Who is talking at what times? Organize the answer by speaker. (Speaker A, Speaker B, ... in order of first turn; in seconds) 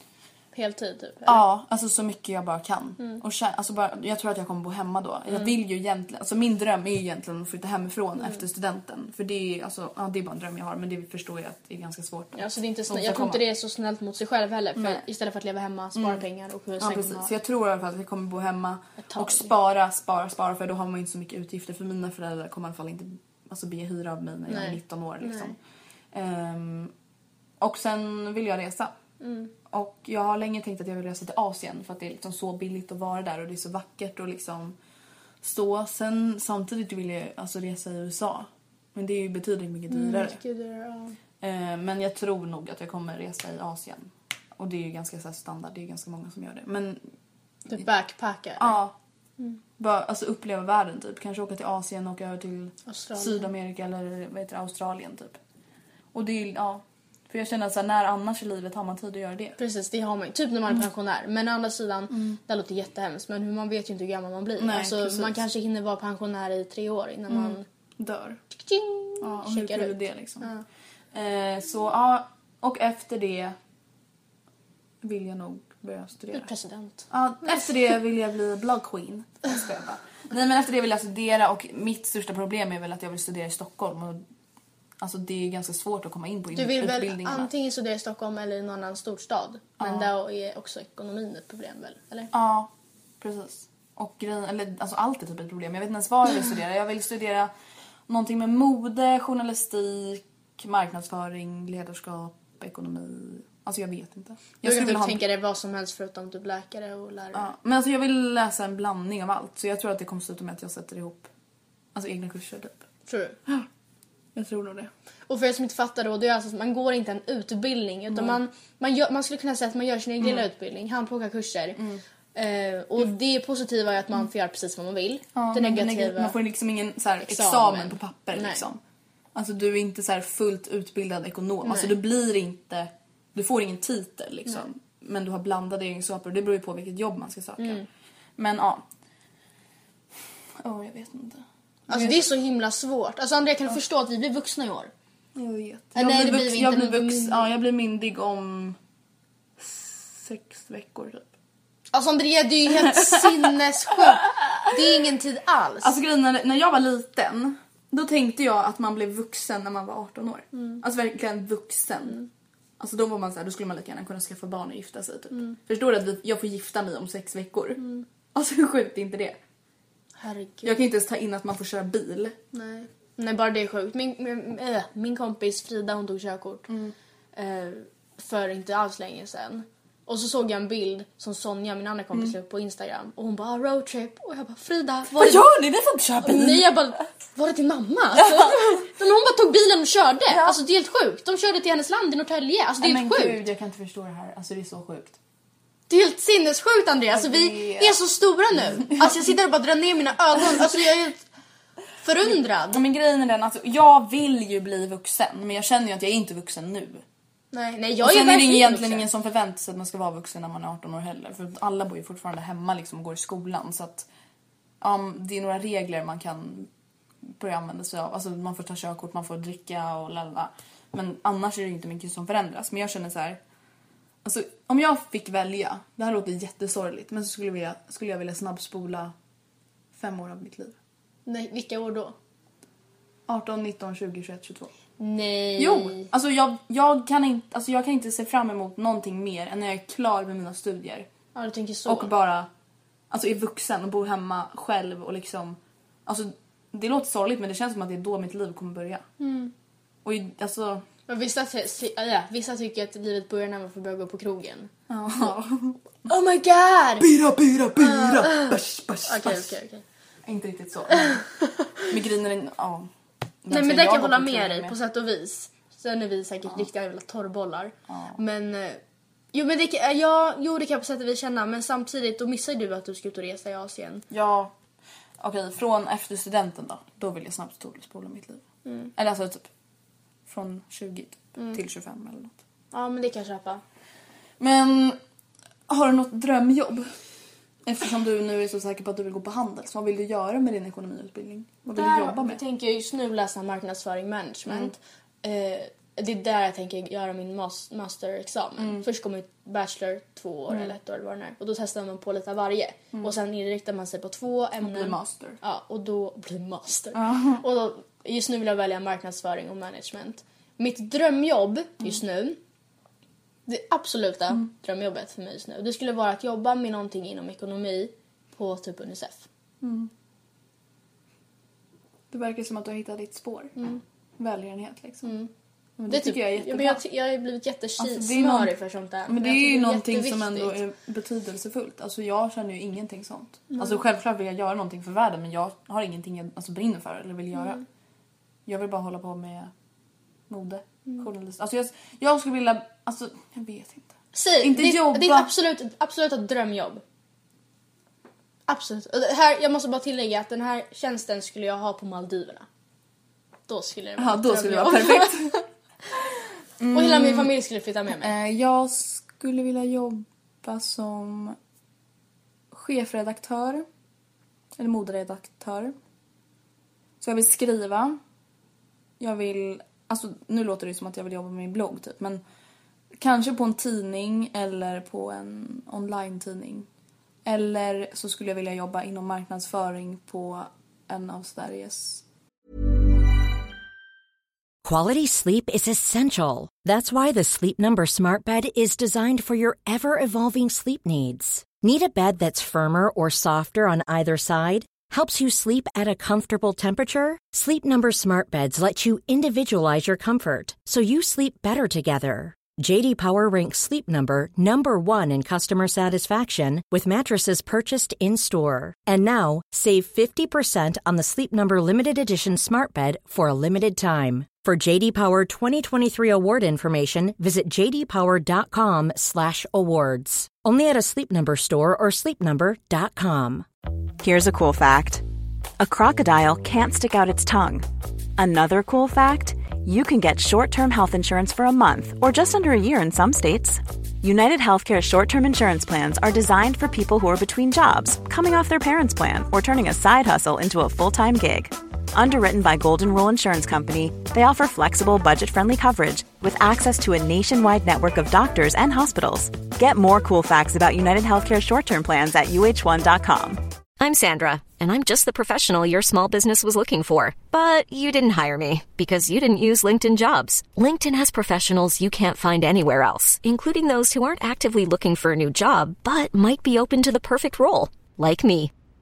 Speaker A: 0.5-1.4, 12.3-17.3, 19.0-19.5, 24.5-25.5, 29.2-29.5, 39.9-41.2, 47.7-48.8, 52.9-53.5, 59.6-67.6, 68.5-70.6, 76.3-77.6, 86.5-92.3, 104.6-107.5, 113.1-113.4, 115.3-121.8, 122.3-126.3, 127.2-128.6, 131.6-132.0, 137.6-137.8, 141.9-144.9, 145.9-147.4, 151.9-155.9, 160.5-160.8, 165.3-165.6, 167.8-168.0, 170.2-170.8, 172.5-176.7, 177.3-185.5, 186.2-193.4, 195.9-201.2, 202.0-202.8, 207.5-209.1, 231.2-232.1, 235.0-236.1, 241.3-242.1, 249.2-249.5, 251.1-254.7, 256.1-257.1, 257.8-259.8, 260.9-262.0, 263.5-268.8, 269.3-274.0, 278.6-278.9, 281.4-281.6, 282.7-283.6, 291.7-312.4, 313.5-319.2, 323.6-323.8, 325.0-325.3, 325.9-330.6, 333.5-333.8, 344.1-346.8, 348.5-352.4, 353.5-355.4, 356.7-358.1
Speaker B: 1.2-13.4, 14.8-15.0, 15.9-16.2, 16.8-25.6, 26.1-26.9, 27.6-28.9, 29.7-34.8, 35.4-40.4, 41.4-47.0, 48.6-48.9, 49.8-55.4, 56.1-59.6, 62.1-62.4, 64.6-65.4, 67.3-68.4, 69.2-70.5, 71.1-73.5, 75.0-76.5, 77.1-84.2, 85.0-87.5, 89.8-90.1, 92.3-97.5, 98.1-105.2, 107.3-111.3, 111.9-112.8, 114.3-114.9, 118.1-118.4, 120.2-120.5, 121.8-122.0, 125.3-128.8, 129.3-137.8, 138.4-138.8, 140.6-142.3, 145.3-148.8, 149.6-151.3, 152.7-154.8, 155.8-162.2, 162.8-169.4, 170.6-172.4, 176.7-176.9, 185.1-186.8, 188.2-188.8, 190.3-190.6, 192.8-195.2, 197.1-198.0, 198.9-199.2, 202.3-207.0, 208.0-214.1, 214.8-216.7, 217.3-223.4, 224.2-229.1, 229.9-230.8, 233.3-234.7, 235.6-241.1, 241.8-242.5, 243.1-249.0, 250.0-250.8, 254.9-255.8, 257.0-259.5, 260.2-261.2, 261.9-262.9, 263.4-264.7, 267.9-268.2, 274.1-274.5, 275.2-278.4, 278.9-279.5, 280.2-282.3, 284.4-285.0, 285.7-286.9, 287.6-292.4, 294.5-294.7, 298.6-298.8, 300.5-300.7, 304.6-305.4, 306.9-307.4, 319.6-319.9, 322.1-323.5, 324.2-325.1, 325.8-326.8, 327.8-328.5, 329.1-337.6, 338.4-339.5, 340.3-345.3, 354.0-355.4, 356.6-357.3, 357.9-361.4, 362.5-363.6, 364.6-365.7, 367.0-368.0, 369.0-372.2, 373.0-376.7, 377.2-382.0
Speaker C: 384.6-423.4
Speaker D: 424.0-425.0, 425.6-427.6, 428.2-453.4
Speaker E: 453.8-468.5